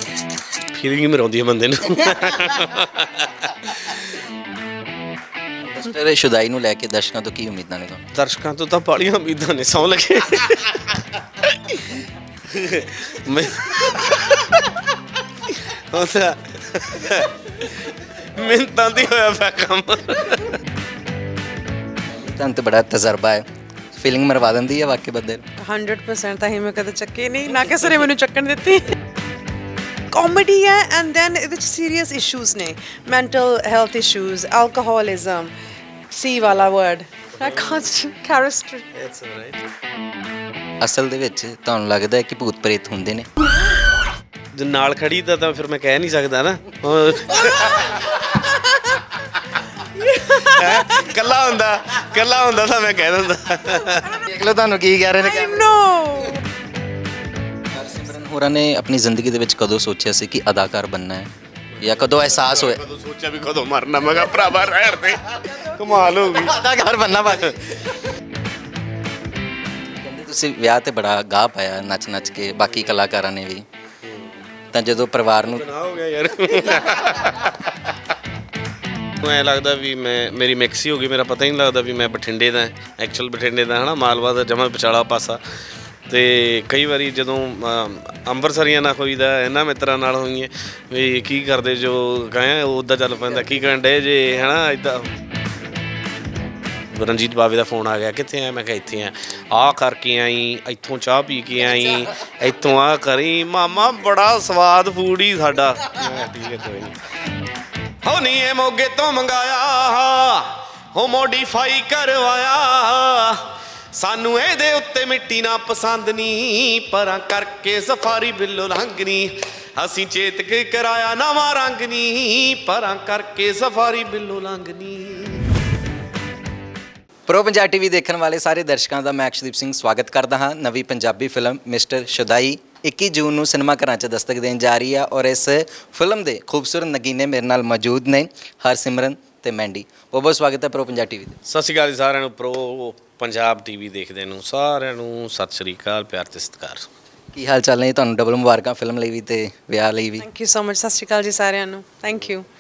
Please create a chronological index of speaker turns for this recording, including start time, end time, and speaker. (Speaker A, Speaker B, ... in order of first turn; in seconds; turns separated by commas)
Speaker A: 0.7-4.2, Speaker B: 5.6-8.0, Speaker A: 8.1-20.6, Speaker B: 22.1-25.4, Speaker C: 25.6-29.0, Speaker C: 30.1-35.5, Speaker C: 36.1-38.9, Speaker A: 37.4-37.9, Speaker A: 38.9-39.6, Speaker B: 40.8-43.3, Speaker A: 44.5-48.2, Speaker C: 47.4-49.0, Speaker C: 49.9-51.2, Speaker A: 50.4-54.2, Speaker C: 53.9-54.4, Speaker B: 54.2-55.7, Speaker C: 55.2-56.4, Speaker B: 57.7-61.3, Speaker A: 61.8-66.7, Speaker B: 61.8-62.8, Speaker C: 65.5-66.2, Speaker B: 66.5-67.8, Speaker A: 67.3-67.6, Speaker B: 70.0-73.7, Speaker A: 74.0-74.4, Speaker B: 74.7-75.7, Speaker A: 75.5-77.9, Speaker A: 79.1-85.4, Speaker A: 86.1-95.1, Speaker A: 96.9-107.0, Speaker A: 108.0-125.5, Speaker B: 127.3-141.4, Speaker A: 141.5-146.9, Speaker B: 147.3-150.3, Speaker C: 150.2-152.5